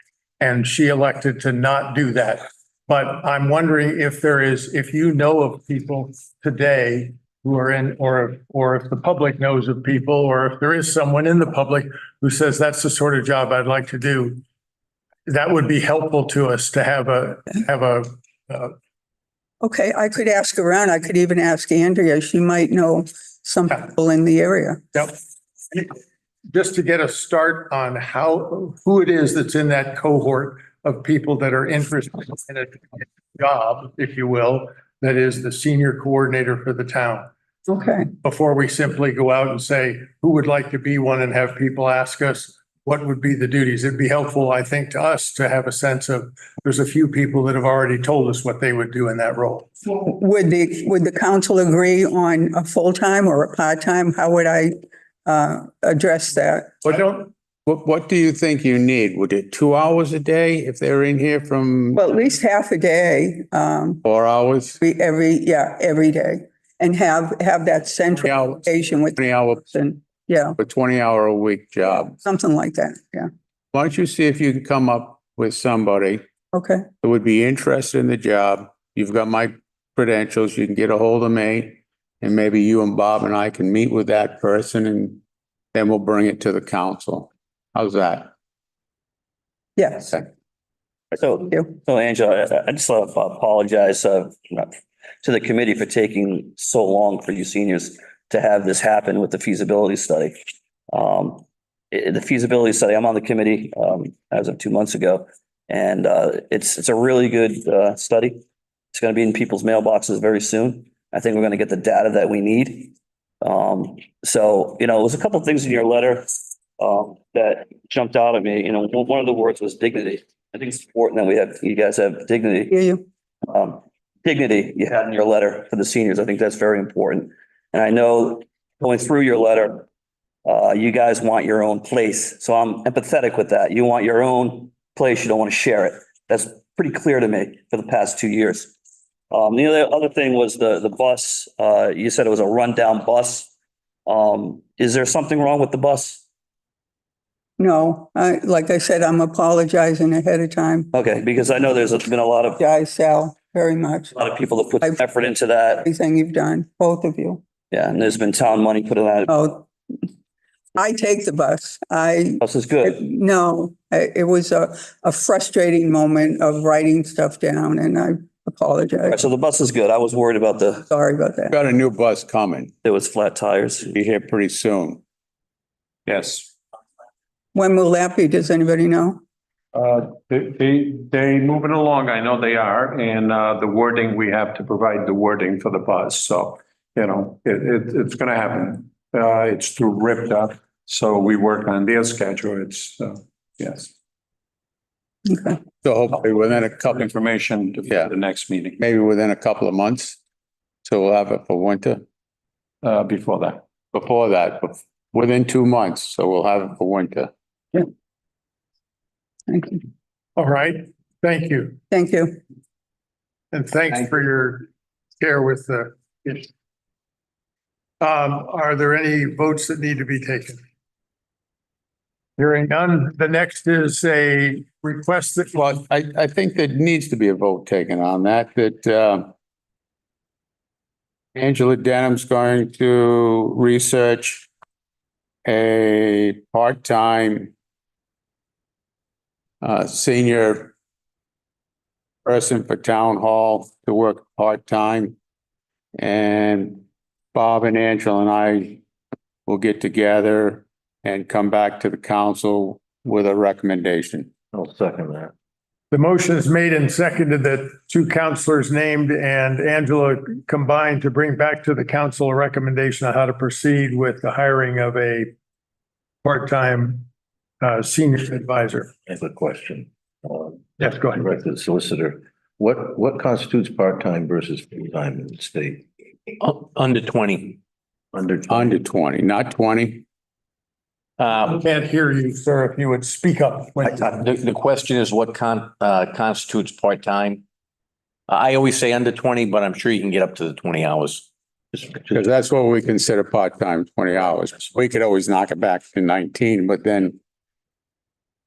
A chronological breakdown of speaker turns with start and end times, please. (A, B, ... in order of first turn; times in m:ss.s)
0:00.4-0:14.4 A
0:15.2-0:18.7 A
0:19.6-0:24.9 B
0:26.5-0:37.3 A
0:37.7-0:38.1 B
0:38.2-0:49.7 A
0:49.9-0:57.0 B
0:56.9-0:57.3 A
0:57.6-1:02.0 C
1:01.9-1:04.0 B
1:04.0-1:04.8 C
1:04.8-1:10.6 B
1:08.2-1:09.6 C
1:10.6-1:12.2 C
1:12.2-1:13.3 B
1:13.7-1:16.2 C
1:16.5-1:16.9 B
1:17.0-1:25.2 C
1:25.7-1:28.3 C
1:29.8-1:30.2 B
1:31.2-1:48.4 D
1:48.9-2:02.7 D
2:02.7-2:03.0 B
2:03.5-2:09.8 D
2:10.4-2:18.7 D
2:19.3-2:23.5 D
2:24.0-2:26.2 D
2:27.6-2:30.9 B
2:30.9-2:32.6 D
2:32.6-2:34.1 B
2:34.2-2:35.9 D
2:35.8-2:37.4 B
2:37.7-2:39.3 D
2:39.3-2:39.7 B
2:40.7-2:49.2 B
2:42.4-2:43.0 D
2:49.1-2:50.8 D
2:50.9-2:51.6 B
2:51.5-2:52.7 C
2:52.8-2:53.9 D
2:53.9-2:55.0 C
2:56.0-2:56.5 E
2:57.5-2:59.2 B
2:59.7-3:13.9 E
3:15.3-3:15.6 B
3:15.8-3:17.1 C
3:16.2-3:18.8 E
3:18.8-3:20.2 C
3:20.8-3:22.0 C
3:22.8-3:23.6 E
3:23.9-3:27.3 C
3:29.5-3:29.8 B
3:30.4-3:31.8 A
3:31.9-3:32.4 B
3:33.5-3:36.5 A
3:38.0-3:40.6 A
3:42.4-3:45.7 A
3:45.6-3:49.3 C
3:51.3-3:54.5 C
3:55.4-3:57.5 C
3:59.6-4:00.7 C
4:02.2-4:05.1 C
4:06.0-4:08.8 C
4:09.4-4:14.3 C
4:14.5-4:15.3 F
4:15.9-4:25.3 A
4:26.2-4:27.1 A
4:27.6-4:28.9 A
4:29.1-4:35.8 F
4:30.8-4:31.2 A
4:36.4-4:37.6 G
4:38.1-4:38.7 F
4:38.5-4:40.0 C
4:41.2-4:41.6 G
4:41.5-4:44.3 A
4:43.9-4:47.4 G
4:48.3-4:51.2 G
4:52.1-4:57.2 C